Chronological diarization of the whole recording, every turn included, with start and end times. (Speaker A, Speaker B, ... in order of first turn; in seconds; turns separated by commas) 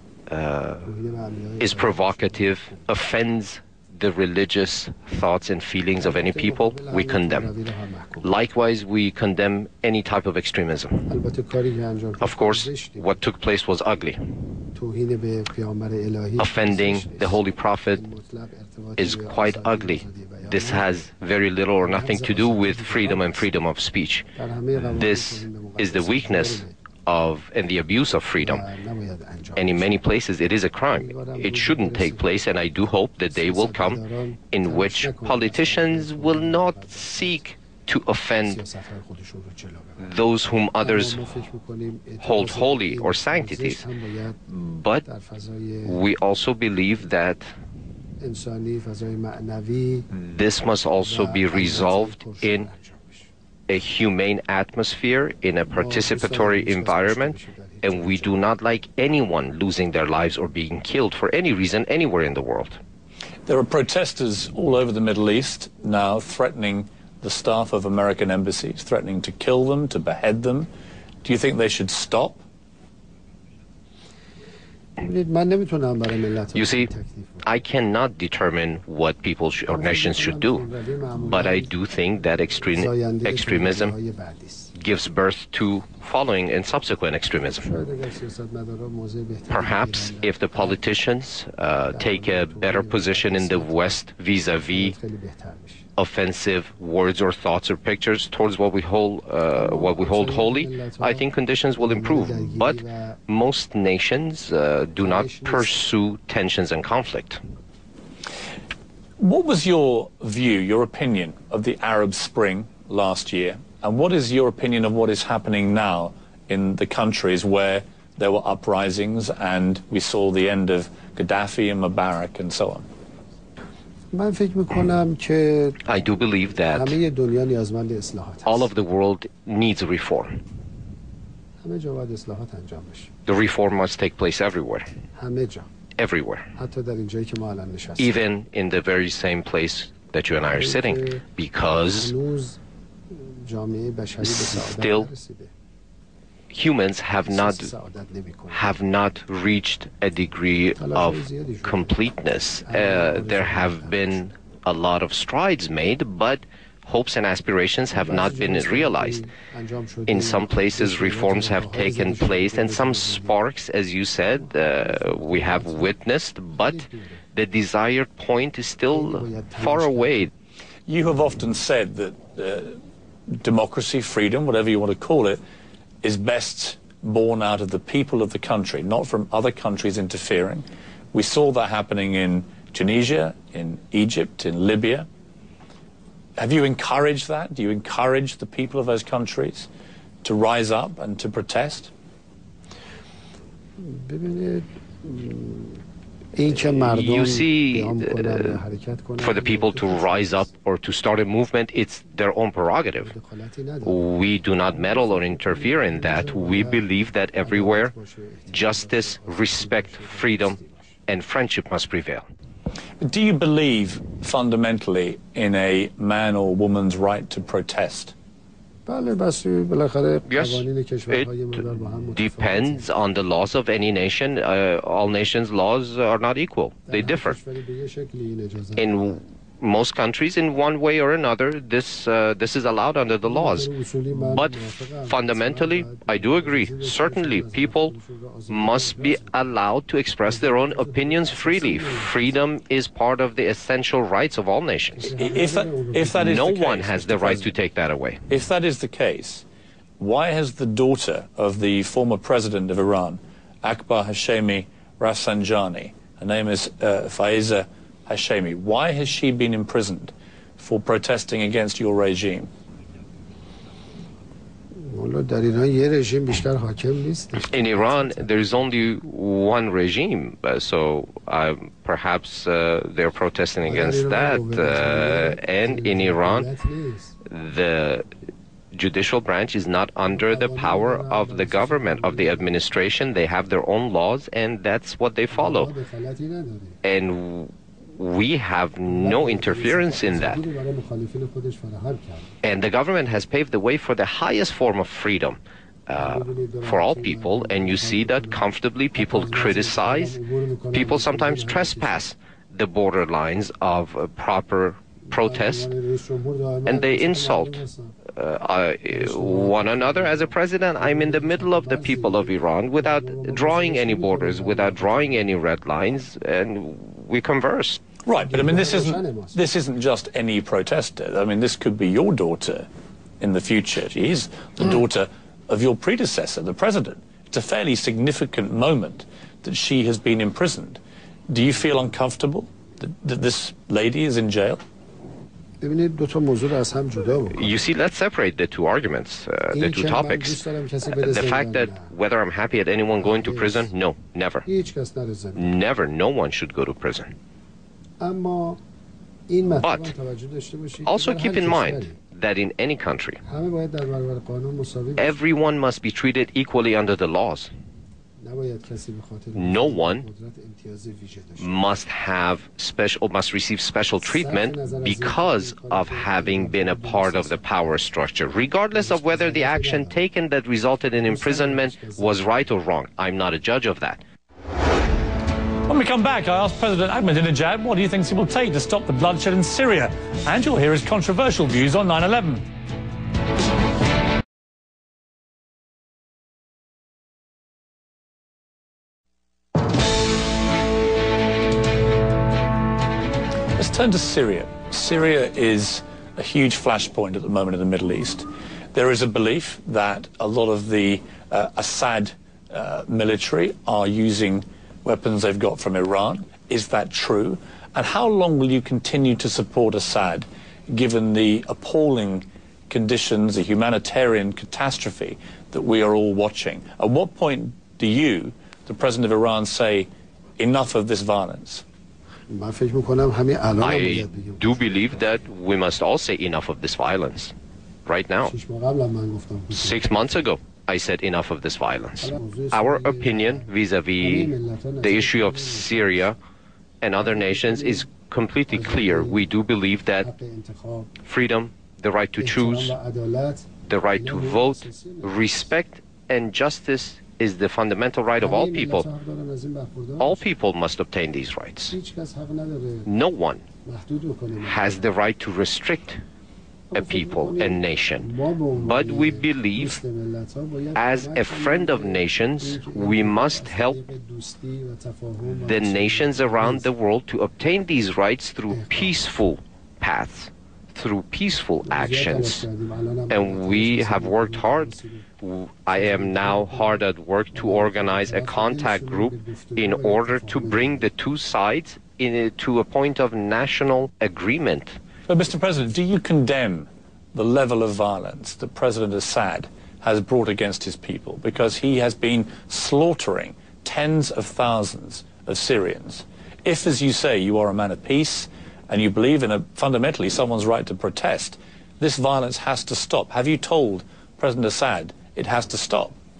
Speaker A: 0.3-0.9, Speaker B: 0.8-2.8, Speaker A: 1.6-7.5, Speaker B: 6.0-8.3, Speaker A: 8.2-11.1, Speaker B: 11.1-13.2, Speaker A: 12.2-14.4, Speaker B: 14.7-17.4, Speaker A: 16.4-18.0, Speaker B: 17.9-20.9, Speaker A: 19.0-24.3, Speaker B: 21.8-23.5, Speaker B: 24.4-26.7, Speaker A: 24.9-28.7, Speaker B: 28.4-30.0, Speaker A: 29.6-34.0, Speaker B: 30.9-32.5, Speaker B: 33.3-37.4, Speaker A: 34.5-38.6, Speaker B: 38.4-40.0, Speaker A: 40.0-41.2, Speaker B: 40.8-44.4, Speaker A: 42.2-43.9, Speaker A: 44.5-45.0, Speaker B: 45.0-46.0, Speaker A: 45.9-47.5, Speaker B: 48.2-50.1, Speaker A: 50.1-52.7, Speaker B: 51.0-53.3, Speaker A: 53.7-62.8, Speaker B: 55.7-58.3, Speaker C: 63.5-70.7, Speaker C: 71.2-72.4, Speaker B: 75.0-77.5, Speaker A: 76.5-76.9, Speaker A: 77.5-80.7, Speaker B: 79.7-81.7, Speaker A: 81.3-84.0, Speaker B: 82.6-84.7, Speaker A: 84.8-87.7, Speaker B: 87.6-90.8, Speaker A: 89.5-95.0, Speaker B: 91.9-94.0, Speaker B: 94.7-95.9, Speaker A: 96.0-107.4, Speaker B: 99.5-101.3, Speaker B: 101.8-103.2, Speaker B: 105.0-105.8, Speaker C: 109.2-122.9, Speaker B: 124.1-125.8, Speaker A: 125.8-127.0, Speaker B: 126.7-128.7, Speaker A: 128.4-130.4, Speaker B: 131.6-133.1, Speaker A: 133.3-134.9, Speaker B: 135.2-135.7, Speaker A: 136.0-136.5, Speaker B: 136.6-138.2, Speaker A: 138.0-142.1, Speaker B: 140.5-141.2, Speaker B: 141.8-145.5, Speaker A: 144.2-145.1, Speaker A: 146.5-147.7, Speaker B: 147.3-148.7, Speaker A: 148.5-159.2, Speaker B: 150.8-152.0, Speaker B: 152.7-154.2, Speaker B: 157.9-163.4, Speaker A: 160.1-170.3, Speaker B: 164.3-165.9, Speaker B: 166.5-167.2, Speaker B: 168.9-170.3, Speaker C: 170.9-175.4, Speaker C: 176.0-185.1, Speaker C: 186.4-189.7, Speaker C: 190.2-191.9, Speaker B: 193.8-195.8, Speaker B: 196.3-200.5, Speaker A: 196.5-198.6, Speaker A: 199.2-203.1, Speaker B: 203.0-204.0, Speaker A: 203.8-207.9, Speaker B: 204.7-206.8, Speaker B: 207.4-210.9, Speaker A: 208.5-210.6, Speaker A: 211.1-212.3, Speaker C: 213.0-218.2, Speaker B: 218.9-222.9, Speaker A: 220.3-221.3, Speaker A: 222.2-227.4, Speaker B: 226.9-229.2, Speaker A: 228.8-237.9, Speaker B: 233.3-239.3, Speaker A: 238.5-245.1, Speaker B: 240.3-242.3, Speaker B: 244.9-246.5, Speaker C: 245.2-247.5, Speaker A: 246.2-248.2, Speaker C: 248.3-249.4, Speaker C: 250.0-262.5, Speaker B: 264.7-268.3, Speaker A: 267.4-276.5, Speaker B: 273.6-277.2, Speaker A: 277.3-278.1, Speaker A: 278.7-285.7, Speaker B: 280.1-282.6, Speaker B: 285.3-286.8, Speaker A: 286.8-290.4, Speaker B: 288.9-292.3, Speaker A: 292.4-300.2, Speaker B: 296.0-302.0, Speaker A: 300.7-305.7, Speaker B: 305.1-307.9, Speaker A: 306.7-317.8, Speaker B: 308.9-315.4, Speaker C: 318.1-322.7, Speaker B: 318.2-319.4, Speaker C: 323.2-334.6, Speaker B: 335.6-337.6, Speaker A: 337.3-340.4, Speaker B: 339.5-341.9, Speaker A: 340.9-344.5, Speaker B: 343.0-343.7, Speaker B: 344.4-345.6, Speaker A: 345.4-347.1, Speaker B: 348.0-348.6, Speaker B: 349.3-351.9, Speaker A: 349.6-349.9, Speaker A: 350.9-353.2, Speaker B: 353.2-355.2, Speaker A: 355.0-357.5, Speaker B: 358.2-361.6, Speaker A: 359.4-360.1, Speaker A: 361.4-374.0, Speaker B: 364.0-367.8, Speaker B: 368.7-370.0, Speaker B: 371.0-372.1, Speaker C: 375.7-382.5, Speaker C: 393.6-421.6, Speaker B: 422.3-425.1, Speaker A: 423.6-427.3, Speaker A: 427.9-428.3, Speaker B: 428.2-430.0, Speaker A: 429.5-436.2, Speaker B: 432.0-433.5, Speaker B: 434.0-436.1, Speaker A: 436.8-440.1, Speaker B: 437.0-437.9, Speaker B: 438.5-439.2, Speaker B: 440.0-440.9, Speaker A: 441.0-442.7, Speaker B: 442.2-445.5, Speaker A: 443.7-448.9, Speaker B: 448.2-450.3, Speaker A: 450.0-451.8, Speaker B: 451.7-452.9, Speaker A: 452.9-453.4, Speaker B: 453.6-454.9, Speaker A: 454.4-456.0, Speaker B: 456.7-466.7, Speaker A: 456.7-459.8, Speaker A: 460.8-463.8, Speaker A: 465.4-472.5, Speaker B: 468.5-469.0, Speaker B: 471.7-475.0, Speaker A: 473.1-484.8, Speaker B: 475.7-480.9, Speaker C: 485.1-505.9